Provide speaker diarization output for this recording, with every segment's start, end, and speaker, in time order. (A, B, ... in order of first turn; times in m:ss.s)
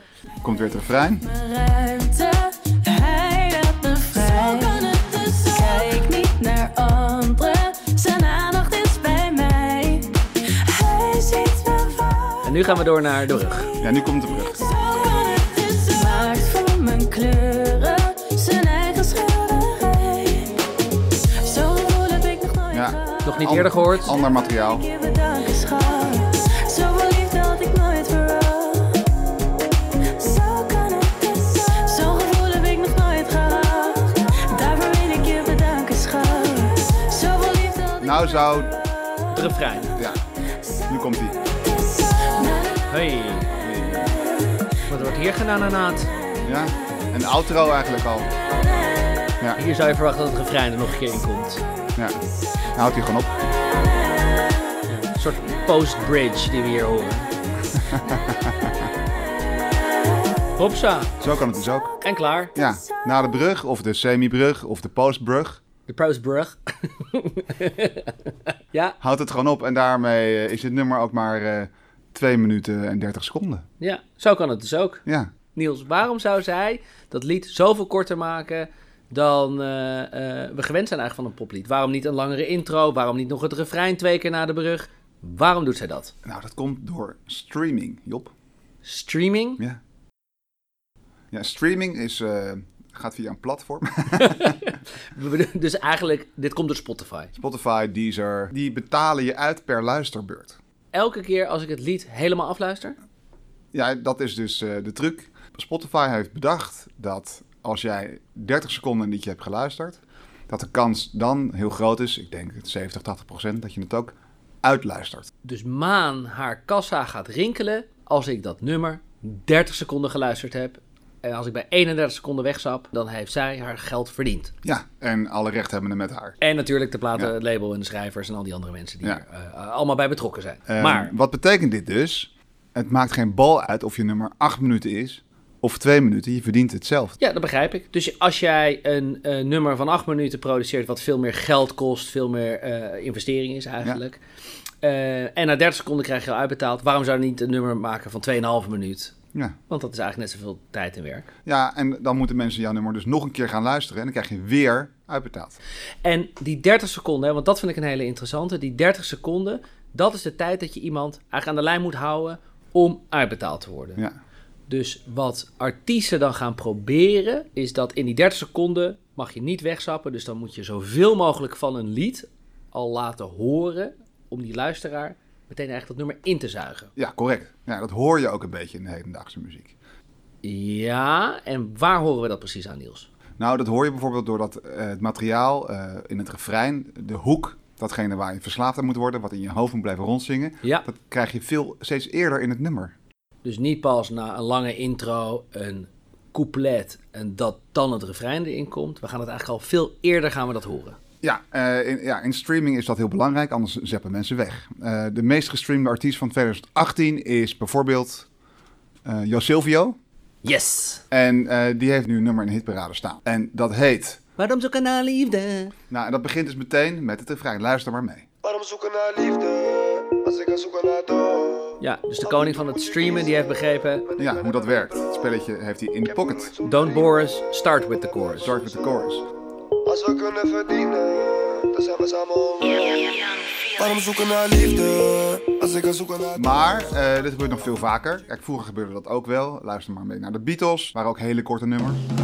0:00.4-0:01.2 A
0:01.2-0:12.7 B
0:12.4-0:13.7 C
0:13.8-0:14.6 A
0:14.4-0:20.6 B
0:21.4-0:29.1 B
0:22.7-0:24.8 A
0:23.2-0:24.1 C
0:30.0-0:38.8 B
0:38.0-0:38.8 A
0:39.3-0:40.0 C
0:40.0-0:40.2 A
0:40.9-0:41.4 A
0:42.0-0:42.8 B
0:42.9-0:43.5 C
0:43.6-0:44.3 A
0:44.9-0:46.1 C
0:46.4-0:48.3 A
0:49.6-0:51.6 C
0:52.0-0:52.2 A
0:52.7-0:53.3 A
0:54.9-0:57.3 C
0:57.8-0:58.9 A
1:00.6-1:01.1 C
1:01.2-1:02.0 A
1:02.0-1:02.5 C
1:02.5-1:05.6 A
1:05.9-1:09.0 C
1:09.0-1:13.6 A
1:13.8-1:15.0 C
1:15.0-1:15.3 A
1:15.5-1:26.1 C
1:26.2-1:28.3 A
1:28.8-1:29.6 C
1:31.3-1:34.6 A
1:34.1-1:37.3 C
1:37.4-1:40.6 A
1:40.9-1:43.0 C
1:43.7-1:55.3 A
1:55.4-2:04.5 C
2:04.6-2:06.4 A
2:06.4-2:11.1 C
2:10.7-2:17.2 A
2:17.2-2:24.2 C
2:24.8-2:29.1 C
2:29.7-2:31.3 C
2:31.5-2:35.6 A
2:36.0-2:44.0 C
2:44.7-2:56.9 C
2:57.0-2:59.8 A
3:00.4-3:03.1 C
3:03.4-3:13.0 A
3:13.4-3:21.0 C
3:21.2-3:28.3 A
3:29.0-3:30.0 A
3:30.4-3:31.0 C
3:31.1-3:34.2 A
3:34.4-3:35.7 C
3:35.9-3:38.3 A
3:38.4-3:45.2 D
3:41.8-3:44.1 C
3:44.2-3:46.5 A
3:46.1-3:47.3 D
3:46.6-3:48.5 C
3:47.9-3:48.9 D
3:48.4-3:49.2 A
3:49.8-3:56.7 D
3:56.4-4:02.0 A